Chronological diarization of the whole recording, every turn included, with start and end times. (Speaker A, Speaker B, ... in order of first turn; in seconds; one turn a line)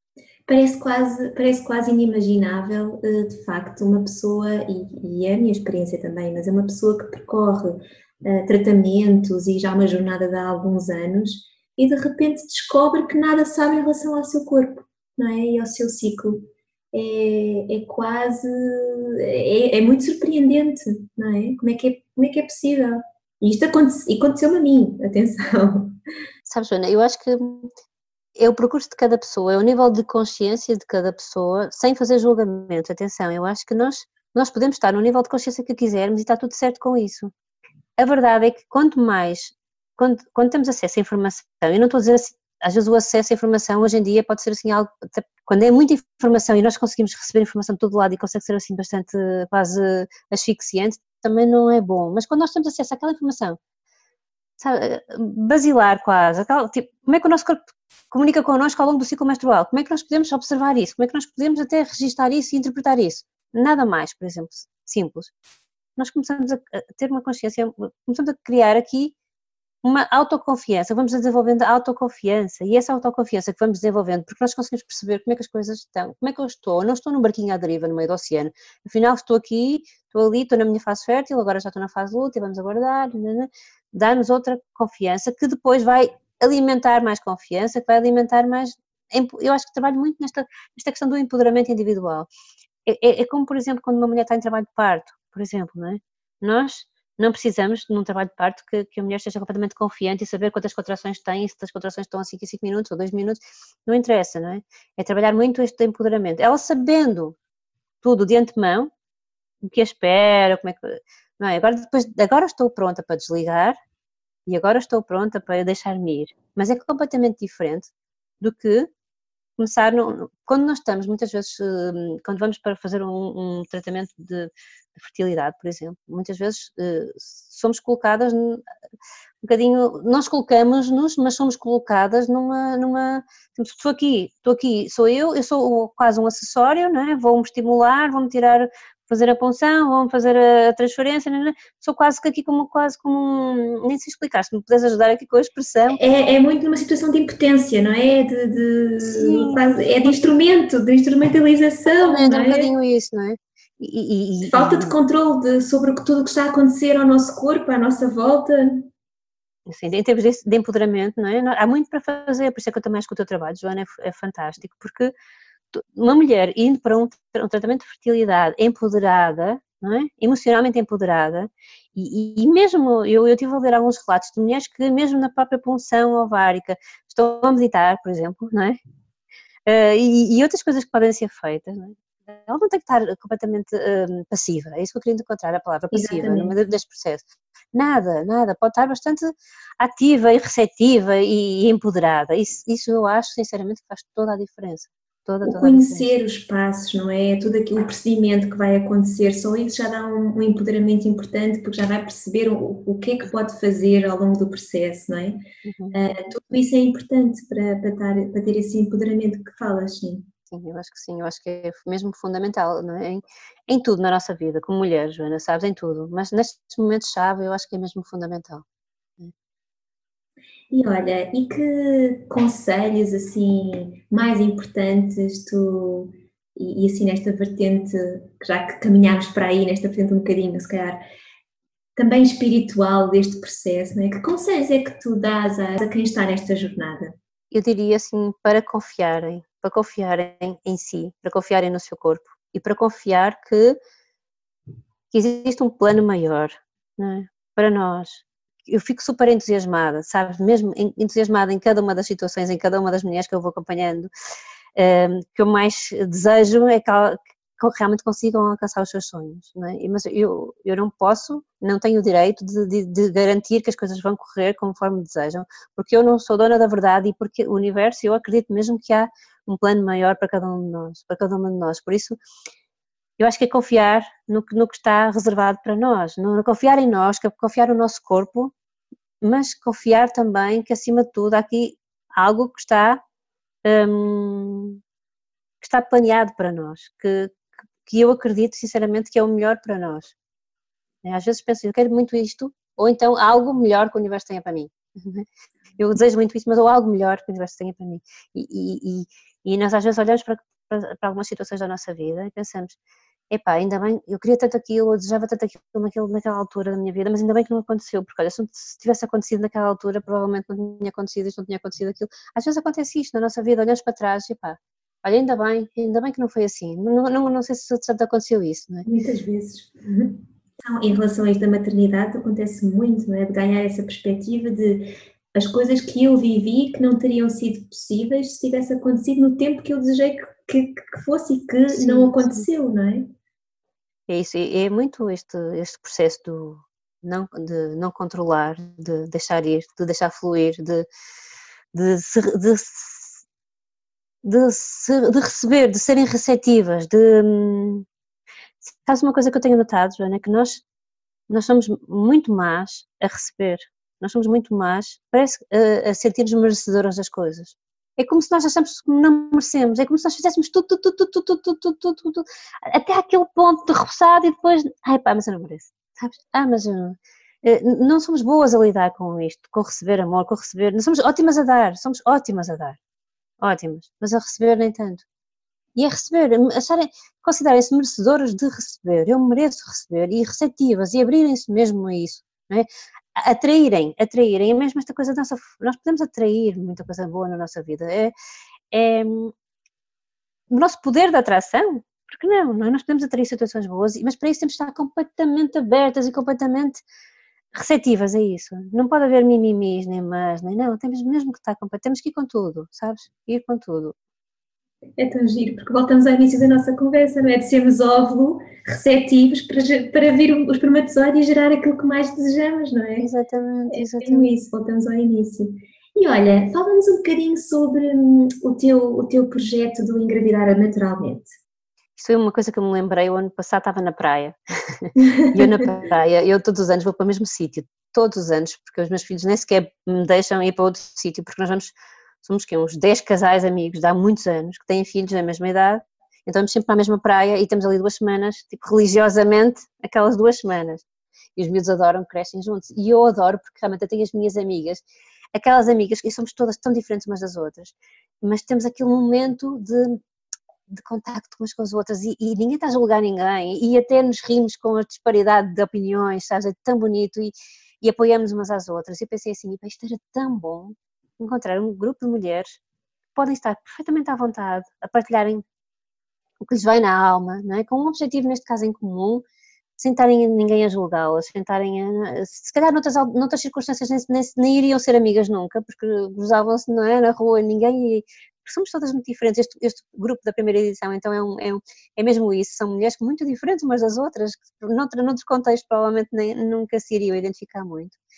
Speaker A: 0.5-26.0
Speaker B: 26.5-27.7
Speaker B: 28.4-37.3
Speaker B: 38.0-53.6
Speaker B: 54.6-65.3
Speaker B: 66.0-69.1
Speaker B: 69.8-92.3
Speaker B: 92.8-107.3
Speaker B: 108.0-108.9
Speaker B: 109.6-113.8
Speaker B: 114.5-117.9
Speaker B: 118.4-118.9
Speaker B: 119.6-128.6
Speaker B: 129.4-146.0
Speaker A: 145.9-152.7
Speaker B: 149.0-150.1
Speaker B: 152.0-155.0
Speaker A: 154.4-158.9
Speaker B: 159.7-165.1
Speaker B: 165.7-178.8
Speaker B: 179.7-196.1
Speaker A: 185.9-186.5
Speaker A: 195.4-205.4
Speaker B: 205.6-206.0
Speaker A: 205.9-210.3
Speaker B: 210.5-218.6
Speaker A: 220.7-231.0
Speaker A: 231.9-237.1
Speaker B: 237.5-243.8
Speaker B: 245.1-254.1
Speaker B: 254.8-272.2
Speaker B: 273.2-278.5
Speaker B: 279.2-283.0
Speaker B: 283.6-284.8
Speaker B: 285.6-290.1
Speaker B: 291.0-302.8
Speaker B: 303.3-318.9
Speaker A: 318.9-333.1
Speaker B: 331.7-332.5
Speaker B: 334.1-340.9
Speaker B: 341.7-343.2
Speaker B: 344.2-347.8
Speaker B: 348.6-350.6
Speaker B: 351.3-372.8
Speaker B: 373.4-375.0
Speaker B: 375.8-388.1
Speaker B: 388.7-389.3
Speaker B: 390.5-396.8
Speaker B: 397.5-403.9
Speaker A: 405.0-413.1
Speaker B: 413.0-414.3
Speaker A: 413.7-421.3
Speaker B: 422.0-440.8
Speaker A: 424.9-425.5
Speaker B: 441.4-450.0
Speaker B: 450.7-462.6
Speaker B: 463.1-465.4
Speaker B: 466.4-469.2
Speaker B: 469.8-488.0